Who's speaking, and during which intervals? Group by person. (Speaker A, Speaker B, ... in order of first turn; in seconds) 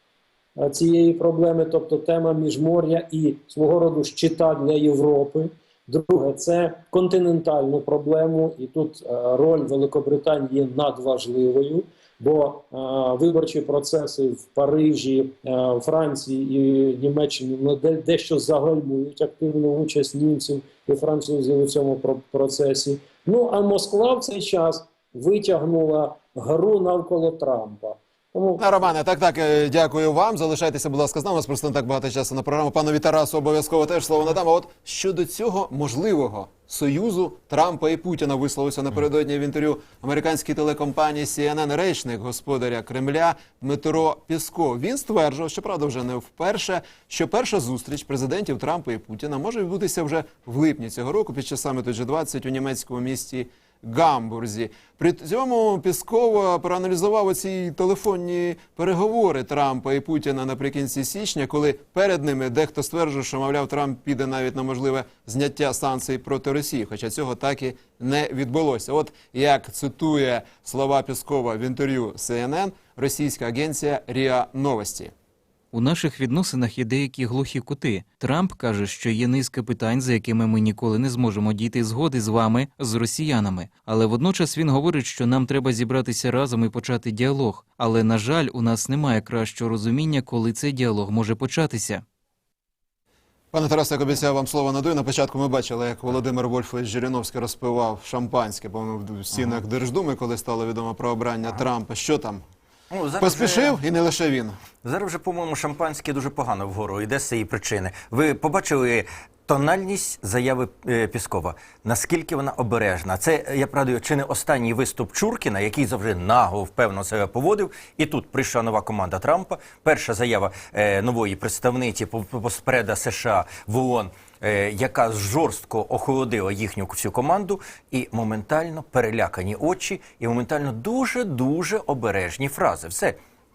Speaker A: 0.6-28.6
Speaker B: 28.6-75.1, 93.5-102.4, 103.2-104.6
Speaker C: 75.7-92.0
Speaker D: 102.9-103.8, 104.8-133.2